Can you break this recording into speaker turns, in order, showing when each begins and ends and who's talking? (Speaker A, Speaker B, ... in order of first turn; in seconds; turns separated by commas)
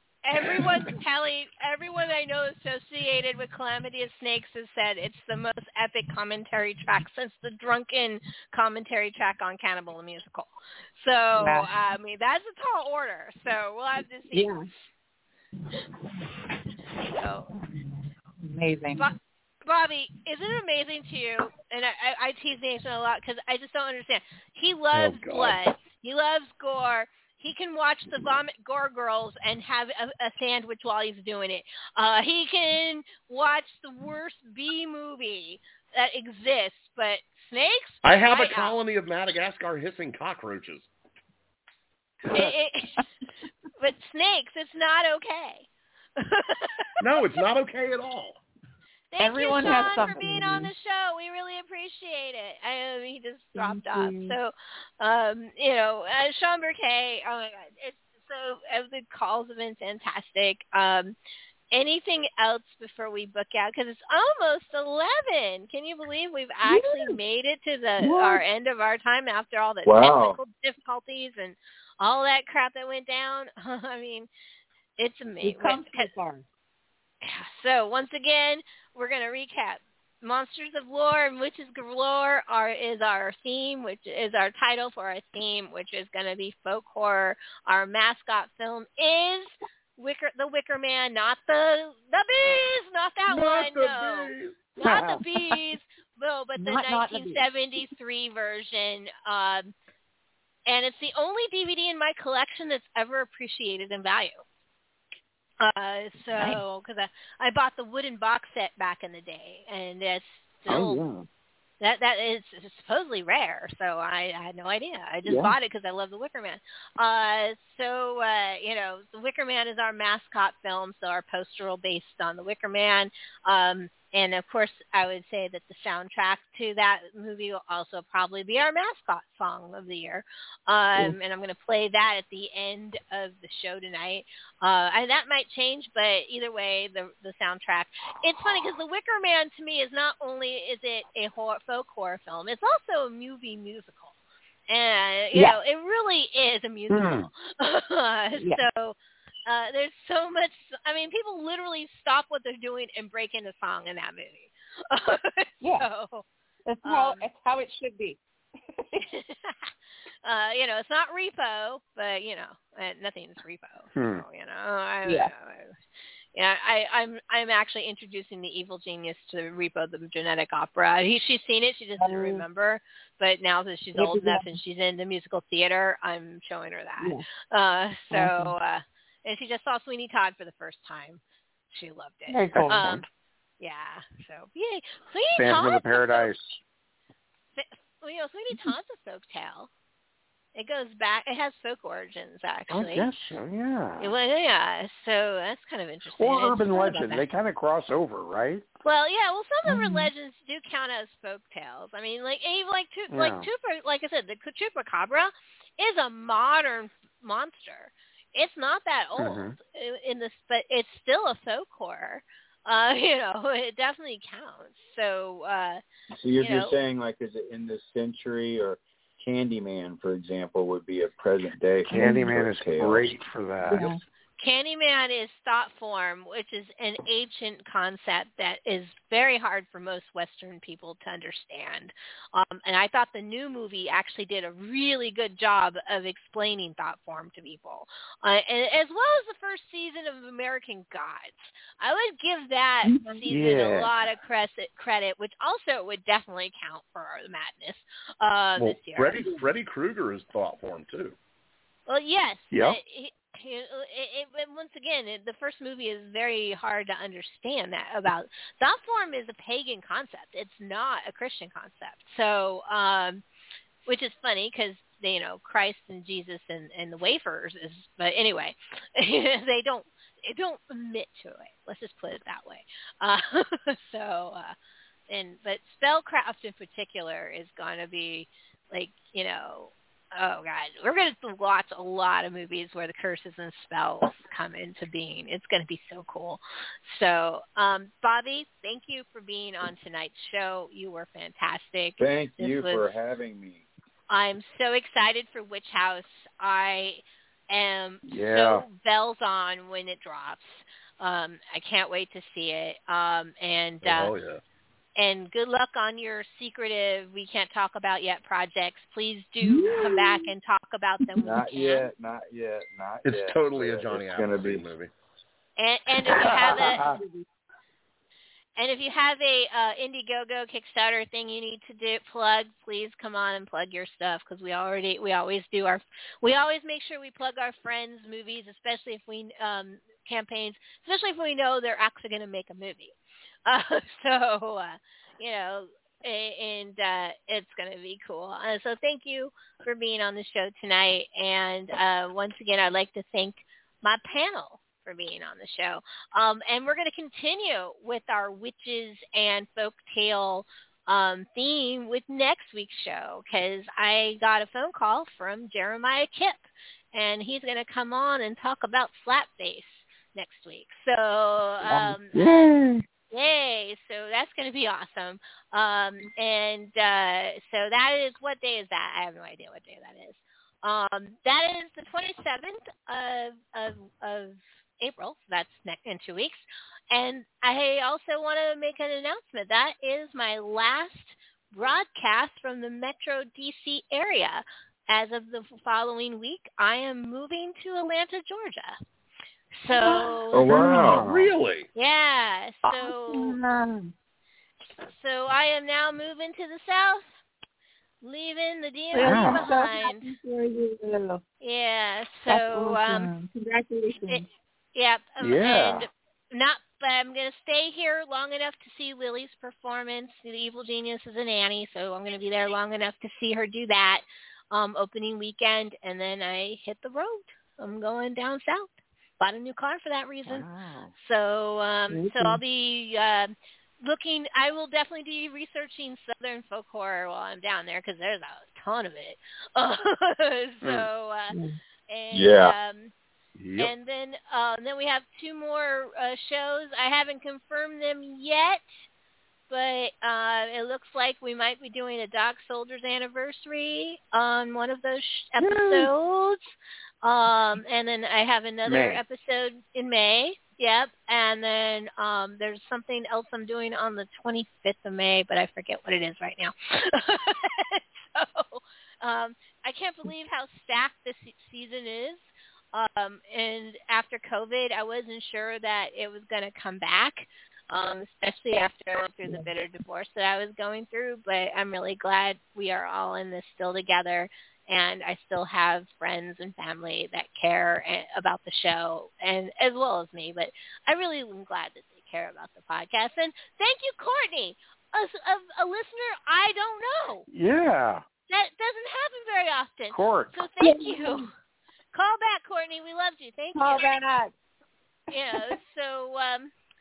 Speaker A: 0.2-14.8, Speaker B: 11.3-11.7, Speaker B: 14.3-14.6, Speaker A: 17.1-17.5, Speaker B: 18.4-19.0, Speaker A: 19.0-38.8, Speaker C: 24.9-25.6, Speaker C: 38.0-40.9, Speaker A: 42.3-43.0, Speaker A: 43.8-46.9, Speaker C: 47.0-48.4, Speaker A: 49.1-61.1, Speaker B: 49.2-50.7, Speaker B: 53.5-54.4, Speaker A: 61.7-74.3, Speaker B: 66.7-67.2, Speaker B: 68.0-68.4, Speaker D: 69.8-70.4, Speaker A: 75.0-76.1, Speaker B: 75.4-76.4, Speaker A: 77.2-99.7, Speaker C: 93.3-94.6, Speaker E: 94.8-95.2, Speaker B: 96.5-97.4, Speaker A: 100.7-104.4, Speaker A: 105.6-111.0, Speaker A: 111.8-144.1, Speaker A: 144.7-156.2, Speaker E: 146.9-147.3, Speaker B: 148.4-148.6, Speaker B: 155.6-155.9, Speaker B: 156.7-158.2, Speaker A: 156.8-157.2, Speaker A: 159.1-159.7, Speaker A: 160.2-165.7, Speaker E: 163.9-164.2, Speaker B: 165.1-165.3, Speaker A: 166.3-183.0, Speaker B: 172.0-172.4, Speaker B: 173.9-174.5, Speaker B: 178.1-178.5, Speaker B: 182.3-183.0, Speaker E: 182.5-183.0, Speaker A: 183.6-186.3, Speaker E: 185.4-186.6, Speaker A: 187.5-189.7, Speaker A: 190.5-193.2, Speaker E: 192.7-194.1, Speaker A: 194.0-197.2, Speaker E: 196.2-198.6, Speaker A: 198.8-215.8, Speaker B: 199.7-200.1, Speaker E: 203.1-203.5, Speaker E: 209.2-209.6, Speaker D: 216.1-223.2, Speaker A: 216.4-216.7, Speaker E: 221.9-224.0, Speaker B: 223.7-224.0, Speaker A: 224.4-249.2, Speaker B: 242.8-243.2, Speaker E: 243.3-243.9, Speaker C: 248.6-251.2, Speaker A: 251.9-263.2, Speaker E: 252.5-252.8, Speaker A: 263.9-274.5, Speaker A: 275.1-292.9, Speaker D: 292.0-293.7, Speaker A: 294.1-304.1, Speaker E: 298.0-298.6, Speaker C: 303.8-304.4, Speaker A: 305.0-311.9, Speaker B: 309.4-310.2, Speaker D: 311.2-314.7, Speaker C: 313.0-314.9, Speaker A: 315.6-316.8, Speaker B: 316.3-317.2, Speaker A: 318.6-332.9, Speaker A: 333.4-362.5, Speaker B: 361.6-362.8, Speaker A: 363.1-388.8, Speaker A: 389.6-390.6, Speaker B: 389.7-390.1, Speaker D: 390.3-391.1, Speaker E: 390.5-391.3, Speaker C: 390.9-391.7, Speaker A: 391.7-393.4, Speaker B: 392.6-393.9, Speaker A: 394.8-397.0, Speaker A: 398.0-400.1, Speaker B: 398.9-401.2, Speaker E: 399.0-399.5, Speaker A: 401.4-403.1, Speaker B: 402.3-404.3, Speaker A: 404.0-432.9, Speaker E: 405.2-405.9, Speaker E: 420.2-420.9, Speaker B: 421.9-422.2, Speaker E: 430.6-430.9, Speaker D: 432.1-432.6, Speaker C: 433.4-433.7, Speaker A: 433.6-438.7, Speaker A: 439.5-446.5, Speaker B: 445.4-445.9, Speaker A: 447.0-487.3, Speaker E: 448.6-449.0, Speaker E: 487.3-488.0, Speaker A: 488.3-491.3, Speaker E: 489.9-490.3, Speaker B: 490.6-491.3, Speaker A: 491.9-493.9, Speaker B: 493.5-494.3, Speaker A: 495.1-496.5